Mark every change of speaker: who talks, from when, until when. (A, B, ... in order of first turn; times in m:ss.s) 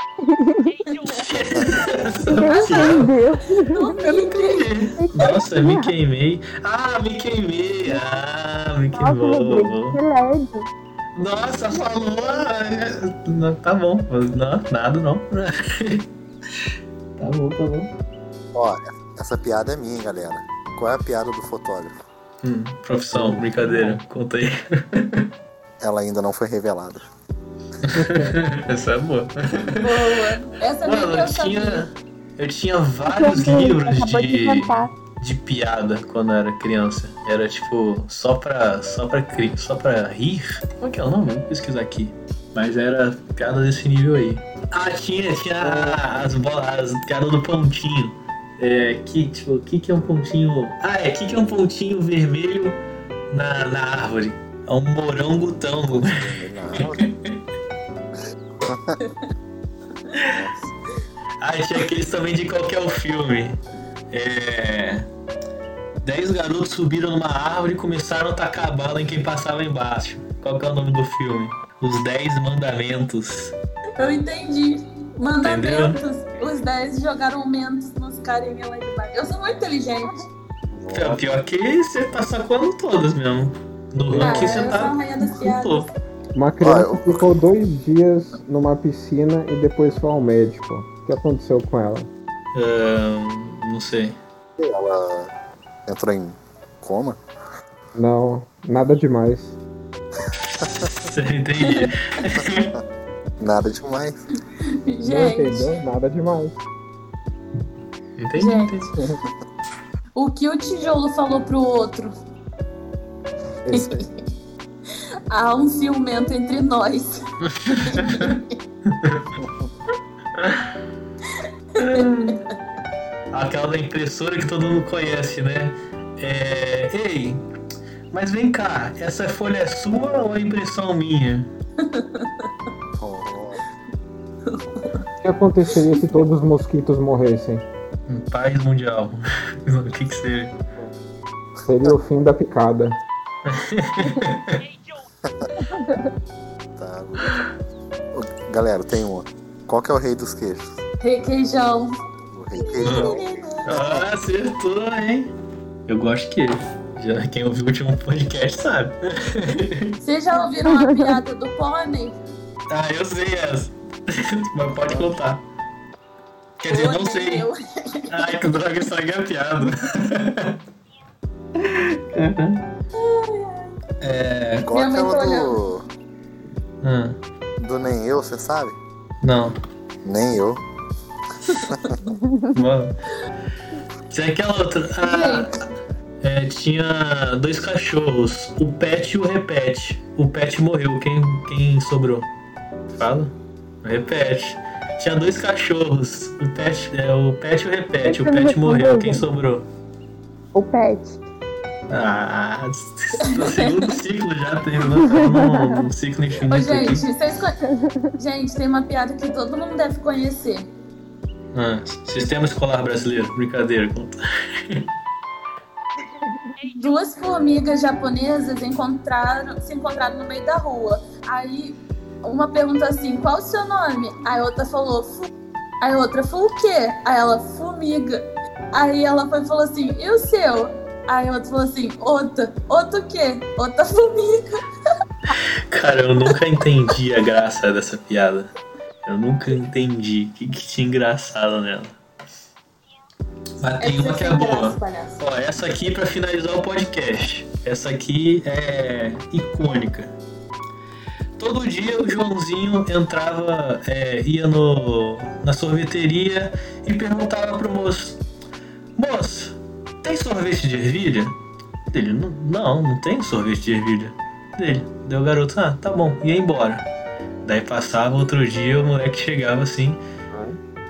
0:00.2-0:00.8 A
0:00.9-0:03.1 B
0:01.0-0:03.1 C
0:02.3-0:04.3 A
0:03.6-0:05.4 B
0:04.2-0:10.0 C
0:05.0-0:05.9 A
0:08.9-0:10.7 A
0:11.2-0:16.1 C
0:17.2-0:17.9 C
0:18.5-0:22.0 D
0:22.4-0:25.3 C
0:23.1-0:24.0 E
0:25.8-0:27.0 D
0:27.8-0:30.2 C
0:27.9-0:28.4 E
0:29.8-0:31.9 B
0:30.8-0:52.8 C
0:33.1-0:34.9 A
0:45.6-0:46.1 E
0:53.3-0:57.4 C
0:55.9-0:57.0 D
0:58.6-0:59.0 D
1:00.2-1:00.7 D
1:01.4-1:03.6 C
1:04.1-1:05.1 C
1:06.0-1:13.6 C
1:14.0-1:20.2 B
1:15.4-1:16.0 C
1:20.7-1:21.3 D
1:20.9-1:25.9 C
1:24.1-1:24.8 E
1:24.2-1:25.9 B
1:26.3-1:32.1 E
1:26.6-1:27.4 D
1:32.5-1:34.2 C
1:34.6-1:35.3 D
1:35.9-1:37.2 D
1:38.0-1:39.6 E
1:40.6-1:40.9 D
1:40.9-1:42.7 C
1:41.6-1:41.9 B
1:43.4-1:44.2 D
1:44.6-1:45.8 B
1:45.0-1:46.6 E
1:48.2-1:48.9 C
1:48.4-1:48.9 B
1:49.0-1:49.3 D
1:50.2-1:52.1 B
1:53.7-1:54.0 D
1:53.7-1:54.2 B
1:55.3-1:57.2 B
1:57.4-1:58.4 C
1:57.8-1:58.6 B
1:58.9-1:59.3 C
1:59.4-1:59.7 D
2:00.4-2:00.7 C
2:01.3-2:02.5 B
2:01.8-2:02.4 C
2:03.3-2:07.4 C
2:08.1-2:11.5 C
2:11.8-2:12.5 B
2:13.0-2:13.6 D
2:14.5-2:15.0 B
2:15.2-2:17.6 E
2:18.1-2:20.6 C
2:21.6-2:23.0 E
2:23.4-2:24.6 C
2:25.2-2:25.5 D
2:25.6-2:26.1 A
2:26.8-2:27.5 D
2:28.1-2:30.7 D
2:31.0-2:31.9 B
2:32.3-2:34.1 D
2:32.6-2:33.8 B
2:32.8-2:35.3 C
2:35.9-2:40.0 C
2:40.0-2:42.2 B
2:40.6-2:41.2 A
2:42.7-2:45.4 C
2:46.6-2:47.5 C
2:46.7-2:48.4 B
2:48.1-2:50.6 C
2:51.6-2:52.7 C
2:53.0-2:53.7 B
2:54.0-2:54.7 C
2:54.6-2:55.8 D
2:54.7-2:55.7 B
2:56.8-2:57.2 C
2:57.6-2:58.8 D
2:59.2-2:59.6 C
3:00.0-3:00.6 D
3:01.5-3:01.9 B
3:01.5-3:02.0 D
3:02.2-3:02.5 A
3:02.5-3:03.0 C
3:04.1-3:05.6 C
3:05.0-3:05.6 B
3:06.2-3:12.3 C
3:12.9-3:19.7 C
3:18.0-3:19.2 A
3:20.6-3:21.2 A
3:21.9-3:27.1 C
3:23.2-3:23.9 B
3:25.0-3:25.9 A
3:26.5-3:27.6 B
3:27.6-3:28.1 A
3:28.2-3:30.7 B
3:31.5-3:34.2 C
3:36.7-3:45.3 B
3:45.8-3:54.6 B
3:55.7-3:58.5 C
3:59.0-4:01.9 C
4:03.6-4:10.1 C
4:03.8-4:05.2 B
4:11.4-4:18.2 C
4:19.0-4:21.4 C
4:21.9-4:26.8 C
4:27.4-4:30.0 C
4:30.3-4:30.6 E